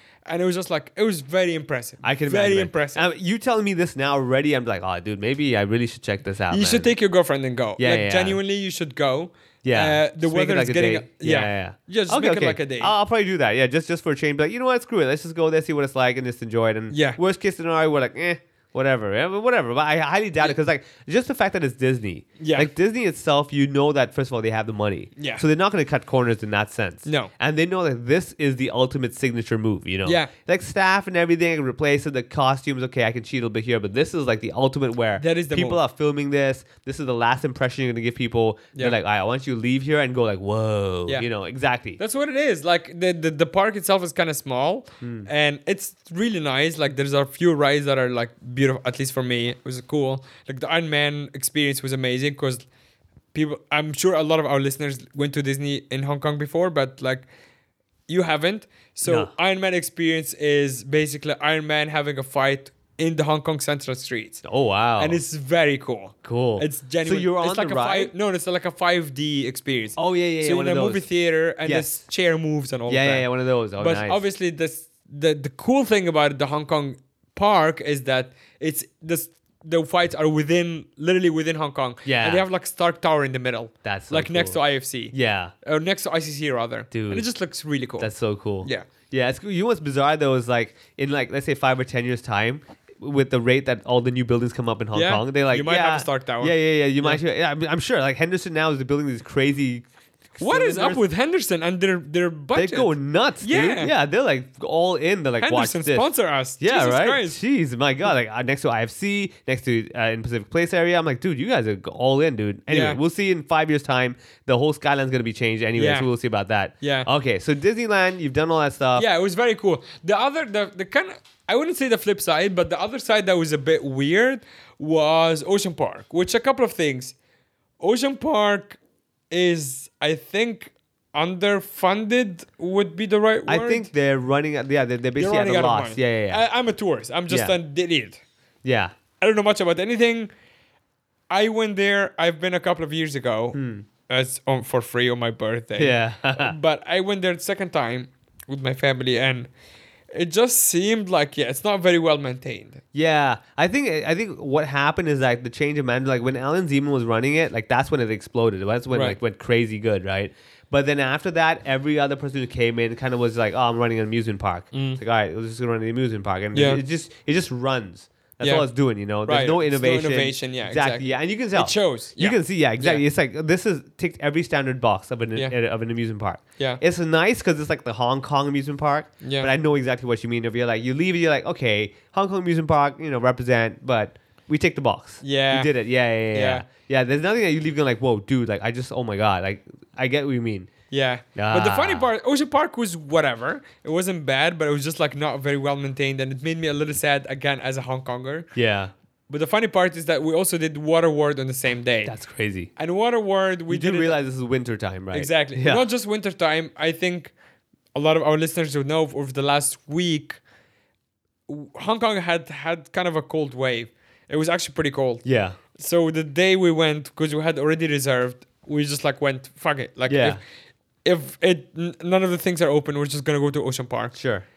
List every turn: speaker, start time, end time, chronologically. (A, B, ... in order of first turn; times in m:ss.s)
0:00.3-0:03.0 A
0:02.0-0:06.9 B
0:06.5-0:12.9 A
0:07.8-0:08.4 B
0:09.6-0:42.0 B
0:16.9-0:17.2 A
0:22.4-0:22.7 A
0:25.2-0:25.4 A
0:27.1-0:27.3 A
0:30.0-0:30.3 A
0:35.2-0:35.8 A
0:42.0-0:52.7 A
0:45.0-0:45.3 B
0:53.3-0:57.3 A
0:58.1-1:04.4 A
0:59.0-0:59.3 B
1:04.4-1:05.2 B
1:05.0-1:13.3 A
1:06.2-1:08.1 B
1:10.0-1:11.1 B
1:11.6-1:12.0 B
1:12.9-1:14.2 B
1:13.8-1:28.1 A
1:22.0-1:22.4 B
1:23.8-1:24.6 B
1:25.1-1:25.5 B
1:26.9-1:27.3 B
1:28.0-1:41.0 B
1:34.9-1:37.2 A
1:40.4-1:43.9 A
1:42.6-1:59.1 B
1:45.4-1:47.4 A
1:52.7-1:53.0 A
1:55.8-1:56.1 A
1:56.8-1:57.1 A
1:59.0-2:07.2 A
2:07.8-2:08.8 A
2:09.3-2:13.9 A
2:13.5-2:16.4 B
2:15.2-2:18.2 A
2:17.3-2:17.6 B
2:18.6-2:18.9 B
2:19.2-2:20.3 A
2:21.3-2:29.5 A
2:23.5-2:23.8 B
2:25.8-2:26.6 B
2:30.1-2:32.8 A
2:32.9-3:10.7 B
2:38.9-2:39.2 A
2:44.7-2:45.0 A
2:46.5-2:46.8 A
2:48.4-2:48.7 A
2:49.2-2:53.0 A
2:59.2-2:59.5 A
3:05.2-3:05.7 A
3:06.3-3:06.7 A
3:10.9-3:18.5 A
3:11.4-3:12.1 B
3:18.6-3:18.9 B
3:19.3-3:22.1 A
3:22.0-3:22.7 B
3:22.8-3:24.2 A
3:23.7-3:25.8 B
3:25.1-3:27.3 A
3:28.0-3:30.4 A
3:31.5-3:40.4 A
3:35.2-3:35.6 B
3:40.1-3:40.4 B
3:41.0-3:44.2 A
3:44.1-3:44.4 B